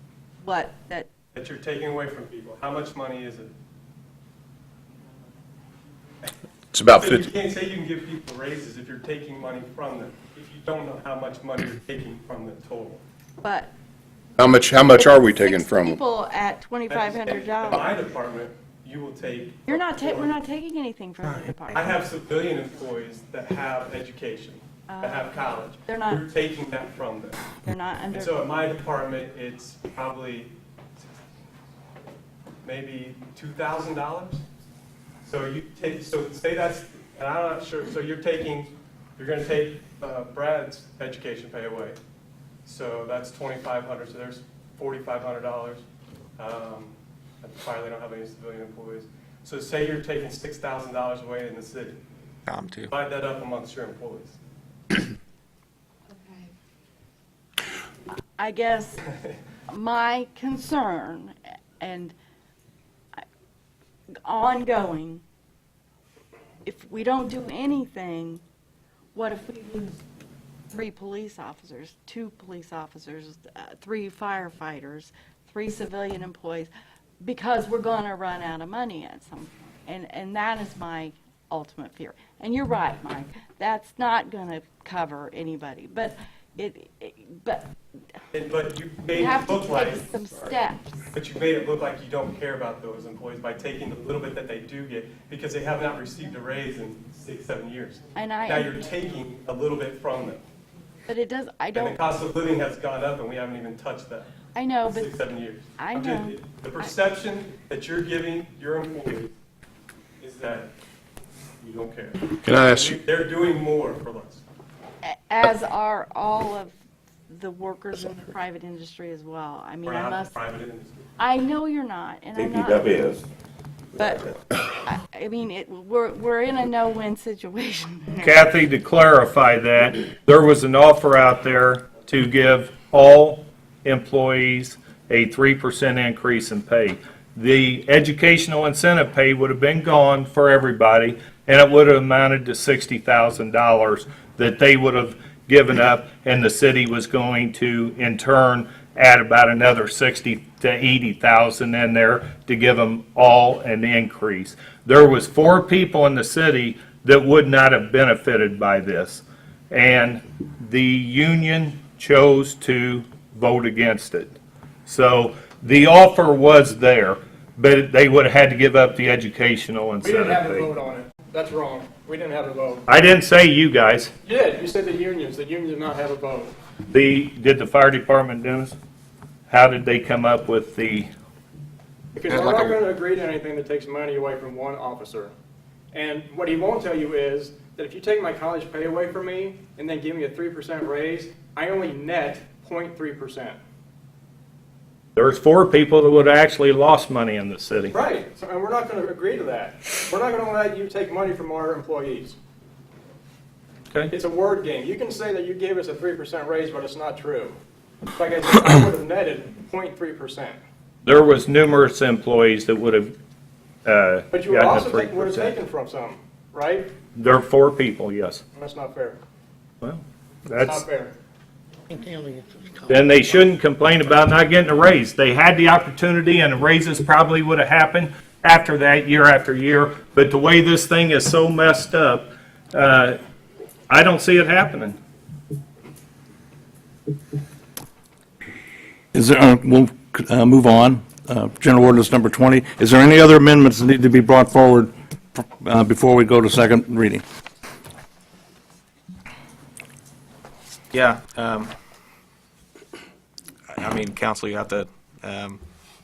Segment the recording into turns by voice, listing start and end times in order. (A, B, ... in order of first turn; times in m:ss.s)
0:00.4-0:01.1 A
0:01.3-0:03.5 B
0:06.7-0:07.3 C
0:06.9-0:13.0 B
0:13.4-0:13.7 A
0:14.4-0:16.0 C
0:14.9-0:18.0 A
0:16.9-0:20.3 B
0:19.7-0:22.0 A
0:21.7-0:27.4 B
0:24.9-0:26.3 A
0:27.6-0:28.4 A
0:28.1-0:30.5 B
0:32.6-0:34.4 B
0:35.2-0:42.0 B
0:42.6-0:45.8 B
0:46.4-0:52.0 B
0:52.5-0:52.9 D
0:52.9-0:54.4 B
0:58.4-0:59.0 A
0:59.7-1:02.1 A
1:04.2-1:05.2 A
1:06.6-1:08.4 A
1:09.1-1:10.0 A
1:10.7-1:27.7 A
1:28.3-1:30.0 B
1:29.1-1:30.9 A
1:31.1-1:40.4 B
1:38.1-1:38.8 A
1:41.1-1:42.0 A
1:41.7-1:44.3 B
1:44.5-1:45.2 A
1:44.9-1:49.3 B
1:45.8-1:46.9 A
1:50.2-1:50.7 B
1:51.6-1:54.4 B
1:52.4-1:52.9 D
1:55.0-1:56.7 A
1:57.3-2:00.4 A
1:59.8-2:01.0 B
2:01.2-2:03.1 A
2:02.4-2:03.2 C
2:04.0-2:04.3 A
2:04.8-2:08.3 A
2:08.2-2:44.3 E
2:44.8-2:50.7 E
2:50.0-2:52.8 F
2:50.5-2:52.1 B
2:52.9-2:54.1 E
2:54.3-2:56.5 B
2:54.6-2:56.4 F
2:56.9-2:58.8 E
2:59.5-3:01.1 E
3:02.2-3:05.3 F
3:02.3-3:02.8 D
3:03.9-3:05.3 B
3:06.0-3:13.5 F
3:07.4-3:07.9 B
3:09.5-3:10.0 B
3:10.6-3:11.6 B
3:12.3-3:12.7 B
3:15.2-3:17.9 E
3:17.9-3:18.6 B
3:18.5-3:22.2 F
3:19.2-3:19.8 B
3:20.8-3:21.3 B
3:24.1-3:27.5 F
3:24.8-3:27.5 B
3:28.2-3:30.4 F
3:28.3-3:29.9 B
3:31.0-3:33.1 E
3:33.8-3:35.6 E
3:34.3-3:36.8 F
3:37.1-3:38.4 E
3:38.6-3:39.1 F
3:39.8-3:40.8 E
3:40.6-3:41.1 F
3:42.9-3:53.2 E
3:53.9-3:55.0 E
3:59.1-4:07.2 G
4:10.9-4:11.7 D
4:13.7-4:15.6 D